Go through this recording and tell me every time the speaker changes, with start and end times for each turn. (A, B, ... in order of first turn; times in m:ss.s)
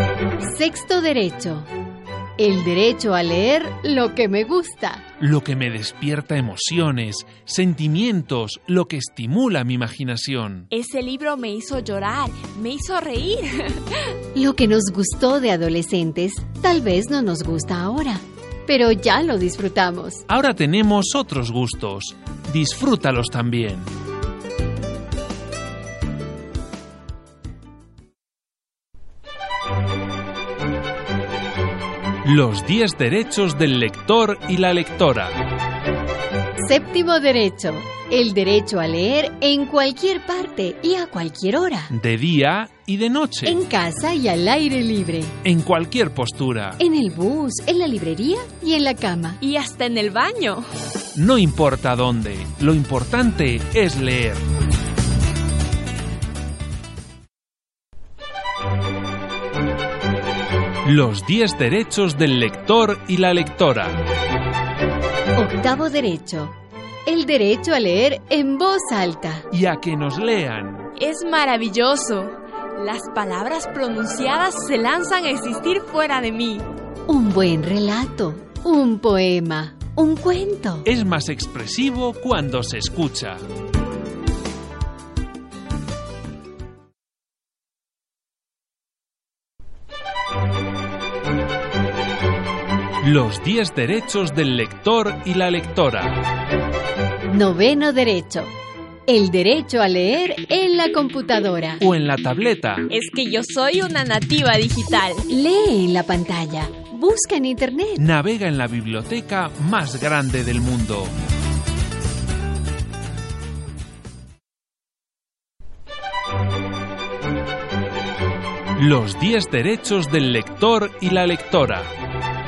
0:00.4-0:01.7 A
0:02.4-0:05.0 A
0:05.2-0:10.7 B
0:10.7-0:14.1 C
0:14.3-0:20.2 A
0:20.3-0:23.9 B
0:32.2-0:35.4 B
0:36.6-0:41.9 A
0:41.9-0:43.6 B
0:43.4-0:45.4 A
0:45.4-0:46.8 B
0:46.8-0:49.4 A
0:49.4-0:50.6 C
0:51.1-0:54.4 B
1:00.8-1:04.0 B
1:05.4-1:06.5 A
1:07.0-1:09.5 A
1:09.5-1:10.9 B
1:11.0-1:16.6 C
1:17.1-1:20.9 A
1:20.8-1:23.4 B
1:33.0-1:36.2 B
1:37.3-1:38.5 A
1:39.1-1:41.8 A
1:41.8-1:42.9 B
1:42.9-1:45.2 C
1:45.3-1:48.0 A
1:48.0-1:51.1 B
1:58.8-2:01.9 B